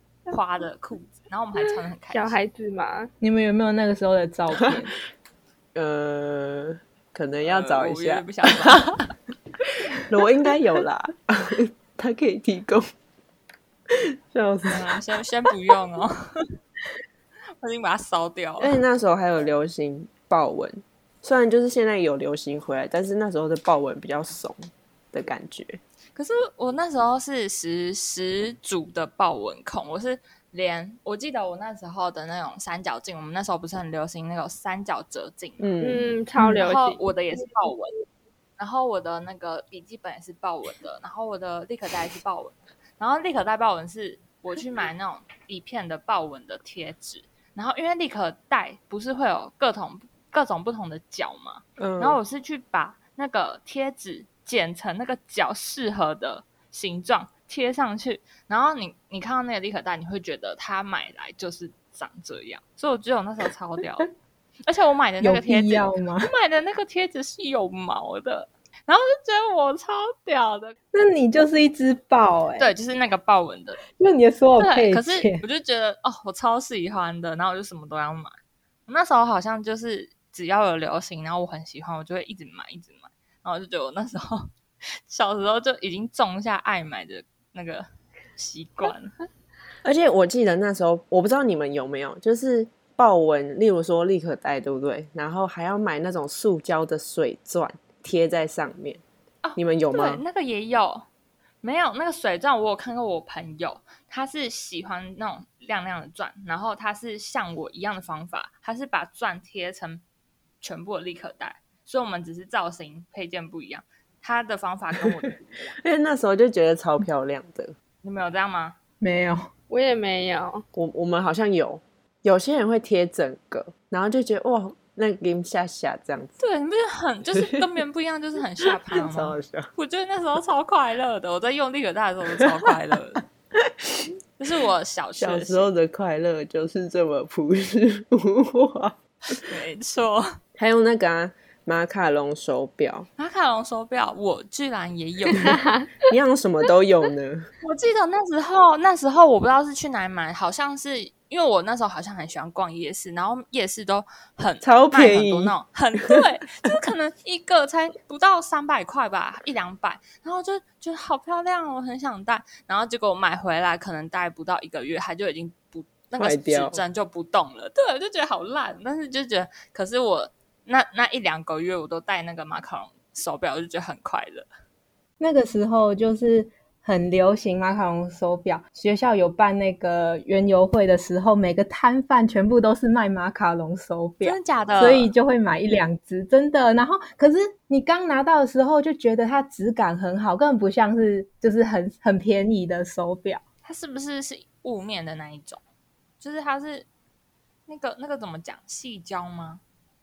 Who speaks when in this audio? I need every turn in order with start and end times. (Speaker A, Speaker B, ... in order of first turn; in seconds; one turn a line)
Speaker A: 0.3-2.4
Speaker B: 2.1-3.1
Speaker C: 3.2-5.0
Speaker D: 5.7-9.0
Speaker A: 7.4-9.0
Speaker D: 9.9-12.9
Speaker D: 13.9-14.8
Speaker A: 14.7-16.4
Speaker A: 17.6-18.8
Speaker D: 18.6-25.8
Speaker A: 26.1-35.8
Speaker D: 35.6-36.1
Speaker B: 35.8-37.0
Speaker A: 36.4-37.9
Speaker A: 38.6-64.1
Speaker D: 51.8-52.2
Speaker A: 64.7-70.7
Speaker C: 65.2-66.3
Speaker C: 70.9-72.7
Speaker A: 72.6-73.8
Speaker C: 74.0-75.4
Speaker A: 74.6-78.3
Speaker A: 78.9-84.5
Speaker A: 85.1-89.1
Speaker D: 89.8-99.0
Speaker A: 99.4-101.0
Speaker D: 99.5-100.2
Speaker A: 101.6-110.0
Speaker A: 110.6-115.8
Speaker D: 115.8-117.7
Speaker A: 118.0-118.8
Speaker C: 119.0-119.5
Speaker B: 119.7-120.6
Speaker D: 120.7-126.4
Speaker A: 126.4-133.2
Speaker D: 127.3-127.6
Speaker D: 128.9-129.7
Speaker D: 133.6-134.1
Speaker A: 134.4-135.7
Speaker D: 135.2-139.4
Speaker A: 139.4-140.4
Speaker D: 140.6-143.1
Speaker A: 143.2-145.6
Speaker B: 145.3-145.8
Speaker D: 146.0-147.5
Speaker A: 147.6-174.5
Speaker D: 154.6-155.5
Speaker D: 166.2-166.8
Speaker C: 175.2-193.4
Speaker A: 184.2-185.1
Speaker A: 193.6-195.6
Speaker A: 196.2-196.9
Speaker A: 197.7-199.6